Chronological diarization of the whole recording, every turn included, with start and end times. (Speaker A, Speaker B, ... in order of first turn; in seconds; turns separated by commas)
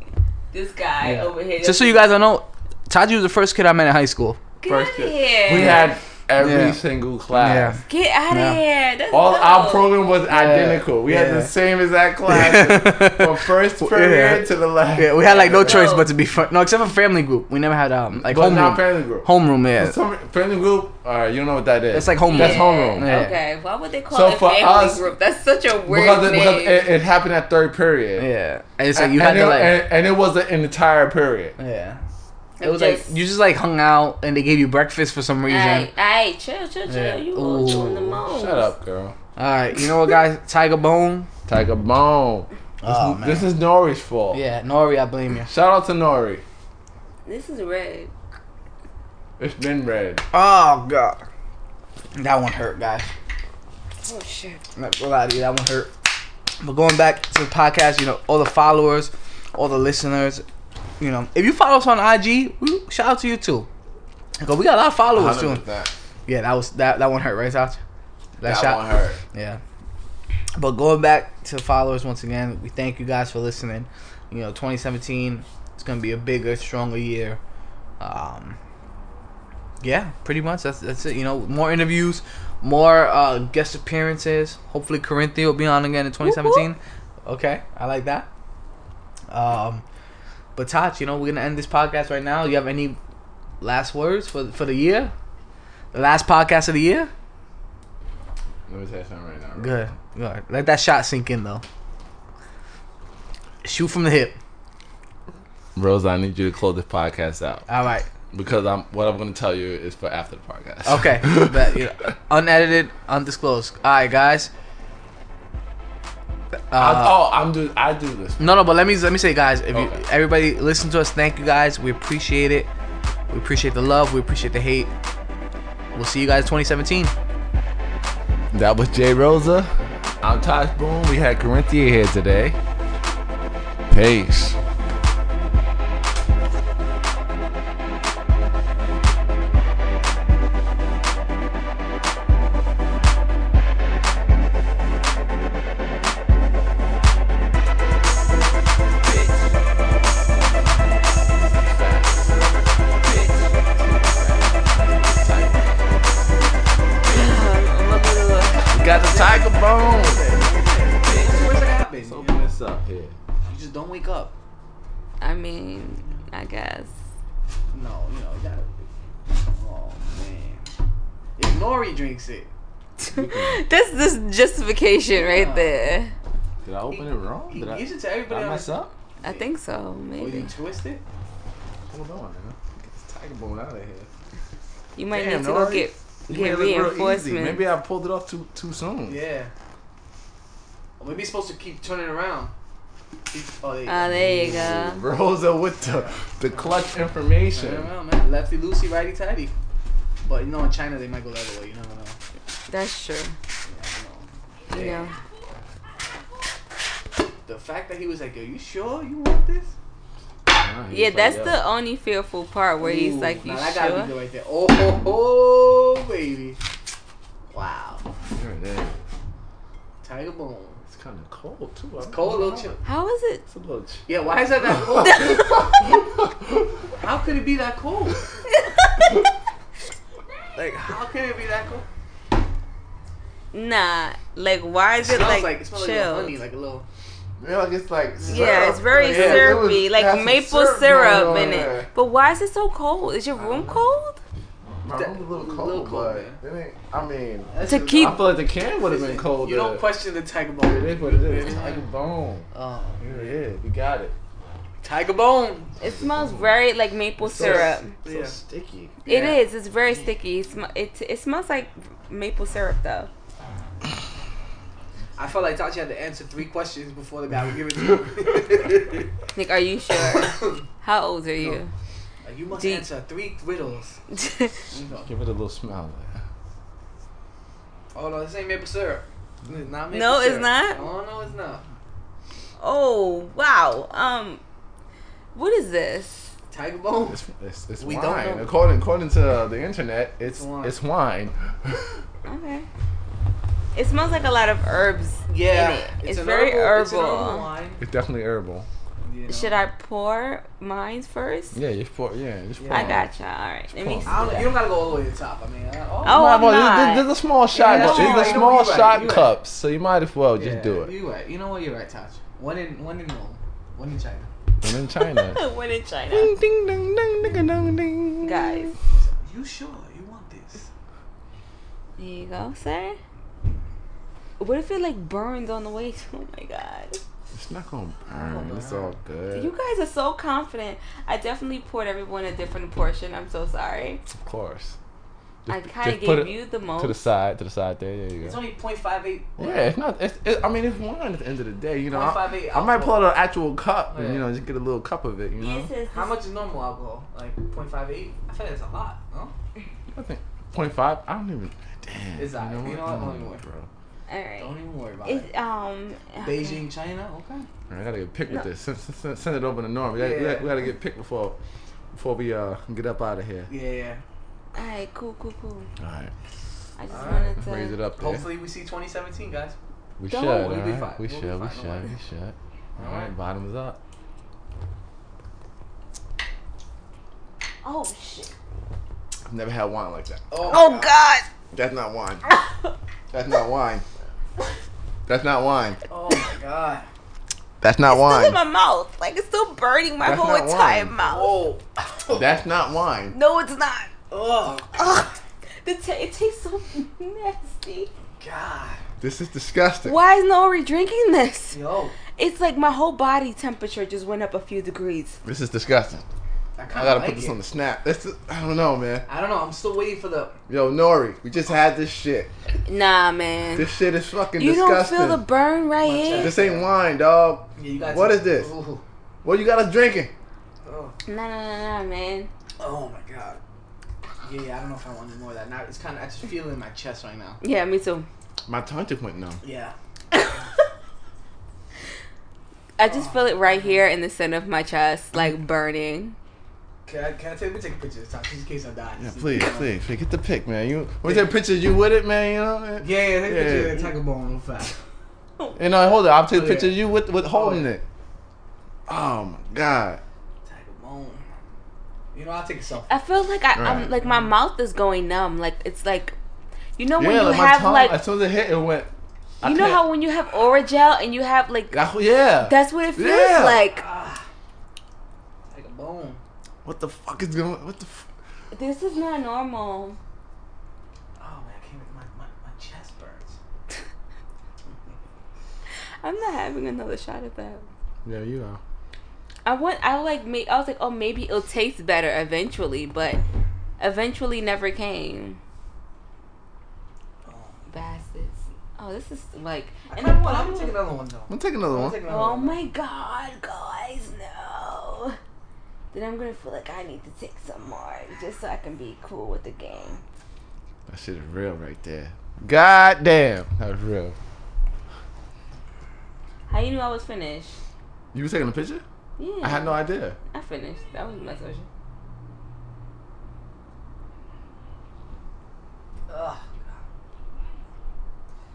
Speaker A: 0.5-2.1, Speaker B: 1.0-4.4, Speaker A: 4.6-5.9, Speaker C: 4.7-7.8, Speaker B: 5.5-5.8, Speaker B: 6.4-6.8, Speaker B: 7.3-8.6, Speaker A: 7.9-10.0, Speaker C: 9.1-15.9, Speaker B: 10.3-11.5, Speaker B: 12.3-20.0, Speaker A: 15.3-16.1, Speaker C: 18.1-23.1, Speaker B: 21.9-23.4, Speaker A: 22.3-26.9, Speaker C: 24.1-25.1, Speaker C: 25.9-28.3, Speaker B: 28.2-29.8, Speaker C: 28.9-31.6, Speaker B: 31.6-32.0, Speaker A: 32.6-33.1, Speaker B: 32.6-35.9, Speaker A: 35.5-38.7, Speaker B: 36.9-38.2, Speaker C: 38.3-39.2, Speaker B: 39.4-41.3, Speaker C: 41.5-44.4, Speaker B: 42.8-43.5, Speaker B: 44.3-45.5, Speaker C: 45.5-46.4, Speaker A: 47.3-48.1, Speaker C: 49.4-50.2, Speaker B: 50.3-51.2, Speaker B: 52.1-53.1, Speaker A: 54.0-54.6, Speaker B: 54.8-55.9, Speaker B: 56.6-60.5, Speaker B: 61.0-63.7, Speaker B: 64.4-65.6, Speaker C: 65.1-65.9, Speaker B: 66.3-67.8, Speaker B: 68.4-69.6, Speaker C: 68.4-69.2, Speaker B: 70.6-77.4, Speaker B: 78.0-78.6, Speaker B: 79.8-88.3, Speaker A: 86.2-86.7, Speaker B: 89.3-89.8, Speaker B: 90.6-93.0, Speaker B: 93.6-95.1, Speaker B: 95.9-97.1, Speaker C: 98.7-99.8, Speaker B: 99.6-101.6, Speaker B: 103.6-104.4, Speaker C: 105.8-107.7, Speaker B: 107.7-108.1, Speaker C: 108.3-111.6, Speaker B: 110.8-114.5, Speaker B: 116.7-117.2, Speaker C: 116.7-118.6, Speaker B: 118.4-122.7, Speaker C: 119.7-120.0, Speaker B: 123.3-124.9, Speaker B: 126.0-127.1, Speaker C: 128.5-132.6, Speaker C: 133.9-134.6, Speaker C: 151.4-156.0, Speaker A: 157.1-158.7, Speaker C: 158.7-163.2, Speaker B: 159.0-162.5, Speaker B: 163.4-164.3, Speaker A: 165.2-166.9, Speaker B: 167.7-170.7, Speaker B: 171.4-172.5, Speaker A: 173.0-176.1, Speaker C: 173.1-173.6, Speaker B: 175.2-175.8, Speaker C: 176.6-178.9, Speaker B: 176.9-179.5, Speaker A: 179.2-180.5, Speaker B: 180.2-181.0, Speaker C: 181.9-184.1, Speaker A: 185.0-187.6, Speaker C: 185.1-189.2, Speaker B: 189.1-189.5, Speaker B: 191.0-192.5, Speaker B: 193.3-194.6, Speaker A: 193.9-195.0, Speaker C: 194.1-197.9, Speaker B: 195.8-196.8, Speaker B: 197.5-199.6, Speaker B: 200.2-202.2, Speaker A: 202.7-203.4, Speaker B: 203.7-205.1, Speaker A: 204.7-205.1, Speaker B: 207.5-209.7, Speaker C: 210.5-211.6, Speaker A: 210.9-214.1, Speaker B: 212.8-216.6, Speaker B: 217.5-218.0, Speaker C: 218.3-219.0, Speaker B: 220.0-220.8, Speaker C: 220.9-222.8, Speaker B: 222.1-222.8, Speaker A: 222.8-223.4, Speaker C: 223.5-226.9, Speaker B: 224.1-225.4, Speaker A: 225.0-225.7, Speaker B: 227.0-228.2, Speaker A: 228.6-228.9, Speaker B: 230.6-231.9, Speaker A: 233.5-236.4, Speaker B: 235.0-236.9, Speaker C: 237.4-241.9, Speaker B: 238.2-239.6, Speaker A: 238.3-244.2, Speaker C: 243.4-243.8, Speaker C: 244.8-249.9, Speaker B: 244.9-246.4, Speaker B: 247.5-251.8, Speaker A: 247.7-248.2, Speaker C: 250.6-252.5, Speaker B: 252.5-253.4, Speaker C: 253.0-254.2, Speaker B: 254.8-255.8, Speaker A: 255.8-257.9, Speaker C: 255.9-256.5, Speaker C: 257.2-259.0, Speaker B: 257.4-258.4, Speaker B: 259.1-259.4, Speaker A: 259.1-263.1, Speaker B: 265.2-269.1, Speaker A: 269.4-271.7, Speaker B: 270.0-270.6, Speaker B: 272.2-274.0, Speaker A: 272.6-272.9, Speaker A: 274.1-274.6, Speaker B: 274.7-275.1, Speaker C: 275.0-276.2, Speaker B: 277.9-281.6, Speaker A: 279.9-280.8, Speaker A: 282.6-284.4, Speaker A: 285.4-286.3, Speaker B: 286.5-287.2, Speaker C: 287.1-292.0, Speaker B: 287.8-288.5, Speaker B: 290.2-290.8, Speaker A: 292.3-292.7, Speaker A: 293.8-297.5, Speaker B: 295.3-297.8, Speaker C: 297.8-298.7, Speaker B: 299.0-299.6, Speaker A: 299.3-301.6, Speaker C: 301.5-303.1, Speaker B: 302.6-303.0, Speaker A: 302.7-304.6, Speaker C: 303.7-304.4, Speaker B: 304.1-306.3, Speaker A: 306.1-307.1, Speaker C: 306.1-310.9, Speaker B: 307.5-309.4, Speaker A: 307.6-308.5, Speaker B: 310.4-314.3, Speaker C: 314.6-315.4, Speaker A: 315.0-316.3, Speaker C: 316.1-318.7, Speaker A: 318.2-318.7, Speaker B: 318.9-320.7, Speaker A: 322.0-323.0, Speaker A: 324.4-327.0, Speaker C: 327.3-329.5, Speaker B: 328.1-329.0, Speaker A: 329.3-334.0, Speaker C: 334.1-334.8, Speaker C: 335.5-338.4, Speaker A: 335.5-337.0, Speaker B: 338.2-339.7, Speaker C: 339.4-345.7, Speaker B: 341.9-343.1, Speaker B: 343.9-344.3, Speaker A: 345.4-346.1, Speaker B: 345.9-349.3, Speaker C: 349.9-353.7, Speaker B: 352.2-353.4, Speaker A: 354.1-356.6, Speaker B: 354.4-355.3, Speaker B: 356.2-357.5, Speaker C: 357.7-361.4, Speaker B: 360.0-360.5, Speaker C: 361.9-363.5, Speaker B: 363.5-364.0, Speaker A: 364.6-365.7, Speaker C: 365.8-366.1, Speaker A: 366.8-367.8, Speaker B: 366.9-367.4, Speaker C: 367.4-368.3, Speaker B: 368.0-369.6, Speaker C: 370.0-373.8, Speaker A: 370.1-370.5, Speaker B: 370.2-371.9, Speaker B: 372.8-373.1, Speaker A: 377.6-378.3, Speaker C: 379.3-380.5, Speaker B: 380.3-380.9, Speaker A: 380.5-381.2, Speaker C: 381.5-382.3, Speaker C: 383.1-383.9, Speaker C: 385.1-385.8, Speaker B: 385.9-386.9, Speaker C: 387.6-388.4, Speaker A: 387.9-391.4, Speaker C: 390.0-390.9, Speaker B: 391.0-392.2, Speaker C: 392.1-393.1, Speaker A: 393.1-393.9, Speaker B: 394.1-395.1, Speaker A: 394.8-395.1, Speaker A: 395.6-397.9, Speaker B: 398.2-398.8, Speaker C: 399.0-400.0, Speaker A: 399.8-401.6, Speaker B: 401.5-402.0, Speaker A: 402.2-405.2, Speaker C: 405.2-406.1, Speaker B: 406.6-407.4, Speaker C: 406.7-409.1, Speaker B: 409.1-410.4, Speaker C: 410.5-412.3, Speaker A: 412.6-413.7, Speaker C: 413.6-415.2, Speaker A: 414.4-416.4, Speaker B: 415.8-416.7, Speaker C: 416.2-418.5, Speaker B: 417.6-418.8, Speaker C: 419.2-420.1, Speaker B: 420.6-420.9, Speaker A: 421.1-422.3, Speaker B: 422.6-423.4, Speaker B: 424.2-427.4, Speaker A: 427.4-428.1, Speaker C: 428.5-429.4, Speaker B: 429.4-429.8, Speaker A: 432.8-436.2, Speaker B: 432.8-433.8, Speaker B: 436.9-439.7, Speaker C: 439.0-443.9, Speaker B: 441.0-441.3, Speaker B: 442.8-444.8, Speaker C: 445.6-447.9, Speaker B: 446.3-447.7, Speaker C: 448.9-450.0, Speaker B: 450.4-451.3, Speaker B: 452.1-453.0, Speaker A: 452.9-456.1, Speaker C: 453.6-453.9, Speaker B: 454.0-454.3, Speaker A: 456.8-458.0, Speaker C: 457.0-459.8, Speaker A: 459.4-461.8, Speaker C: 461.7-463.6, Speaker A: 462.4-463.8, Speaker B: 463.7-464.2, Speaker B: 465.5-466.2, Speaker C: 466.6-468.1, Speaker A: 468.5-470.0, Speaker B: 471.2-473.4, Speaker B: 474.7-475.1, Speaker A: 476.0-477.7, Speaker C: 478.0-478.6, Speaker A: 479.4-483.2, Speaker A: 483.8-485.4, Speaker B: 487.2-487.7, Speaker A: 487.7-490.8, Speaker B: 489.9-492.6, Speaker C: 491.3-492.0, Speaker A: 492.1-495.2, Speaker A: 495.9-500.0, Speaker C: 500.9-504.2, Speaker A: 506.5-507.6, Speaker C: 508.1-508.8, Speaker A: 509.2-509.8, Speaker C: 509.4-510.2, Speaker A: 510.3-511.7, Speaker B: 516.1-516.7